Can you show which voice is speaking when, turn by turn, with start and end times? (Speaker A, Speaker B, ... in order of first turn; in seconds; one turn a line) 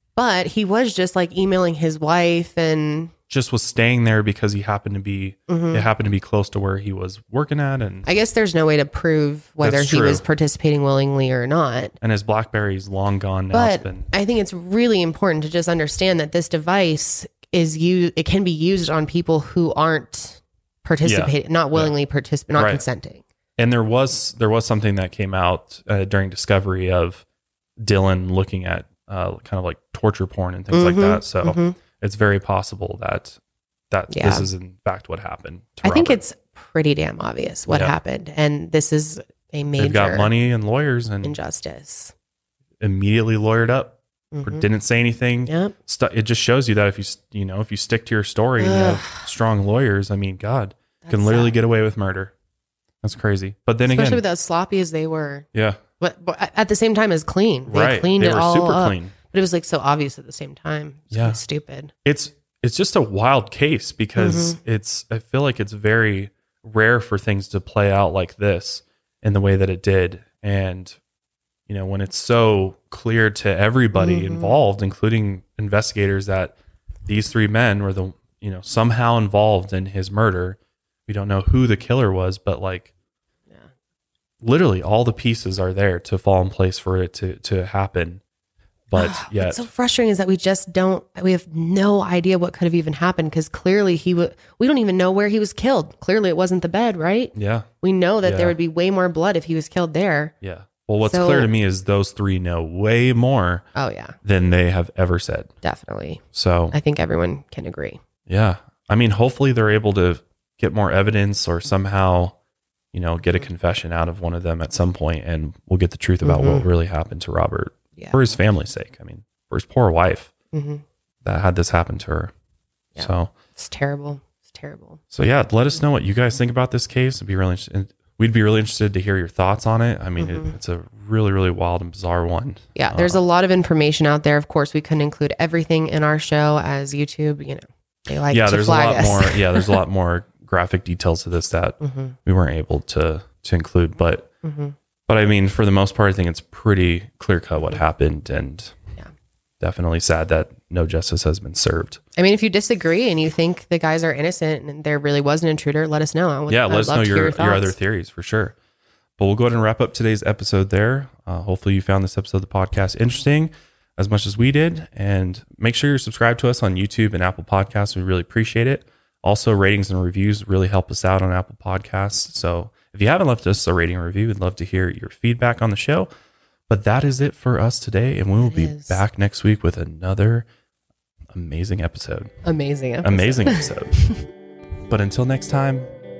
Speaker A: 0.2-3.1
Speaker B: 3.3-8.1
Speaker A: 5.5-5.9
Speaker A: 8.1-12.0
Speaker B: 9.6-10.2
Speaker B: 12.0-14.1
Speaker A: 13.5-23.2
Speaker B: 21.0-21.9
Speaker B: 22.6-22.8
Speaker B: 23.6-27.2
Speaker B: 27.8-33.4
Speaker A: 30.7-31.8
Speaker B: 33.9-36.2
Speaker A: 34.1-34.5
Speaker A: 35.8-40.3
Speaker B: 37.7-37.9
Speaker B: 39.8-41.4
Speaker A: 41.2-42.1
Speaker B: 42.8-52.3
Speaker A: 44.3-44.7
Speaker A: 45.5-45.7
Speaker A: 48.6-49.3
Speaker A: 51.0-51.5
Speaker B: 53.0-54.2
Speaker A: 53.9-55.5
Speaker B: 55.5-55.8
Speaker A: 56.0-61.9
Speaker B: 57.7-59.1
Speaker B: 61.1-61.4
Speaker B: 62.0-71.0
Speaker A: 64.2-64.6
Speaker B: 71.7-76.5
Speaker A: 73.9-74.6
Speaker B: 77.1-82.9
Speaker B: 84.4-88.2
Speaker B: 88.9-89.7
Speaker A: 89.0-100.3
Speaker B: 97.3-97.7
Speaker B: 98.2-98.6
Speaker B: 100.4-103.7
Speaker A: 101.0-101.5
Speaker A: 103.8-104.2
Speaker B: 104.2-105.5
Speaker A: 105.6-108.0
Speaker B: 106.3-106.8
Speaker B: 108.3-112.3
Speaker B: 112.9-120.3
Speaker A: 116.2-116.7
Speaker A: 120.5-120.8
Speaker B: 121.2-122.3
Speaker A: 123.0-125.0
Speaker B: 123.0-123.3
Speaker B: 125.1-133.2
Speaker A: 130.2-130.6
Speaker A: 132.8-139.8
Speaker B: 138.3-144.3
Speaker A: 141.8-142.2
Speaker A: 144.4-144.8
Speaker B: 145.1-148.8
Speaker B: 149.6-152.0
Speaker A: 152.2-157.8
Speaker B: 156.5-158.6
Speaker B: 159.2-176.1
Speaker B: 176.7-180.5
Speaker A: 178.4-179.0
Speaker B: 181.3-182.3
Speaker A: 182.4-184.2
Speaker B: 183.0-184.2
Speaker B: 184.9-185.9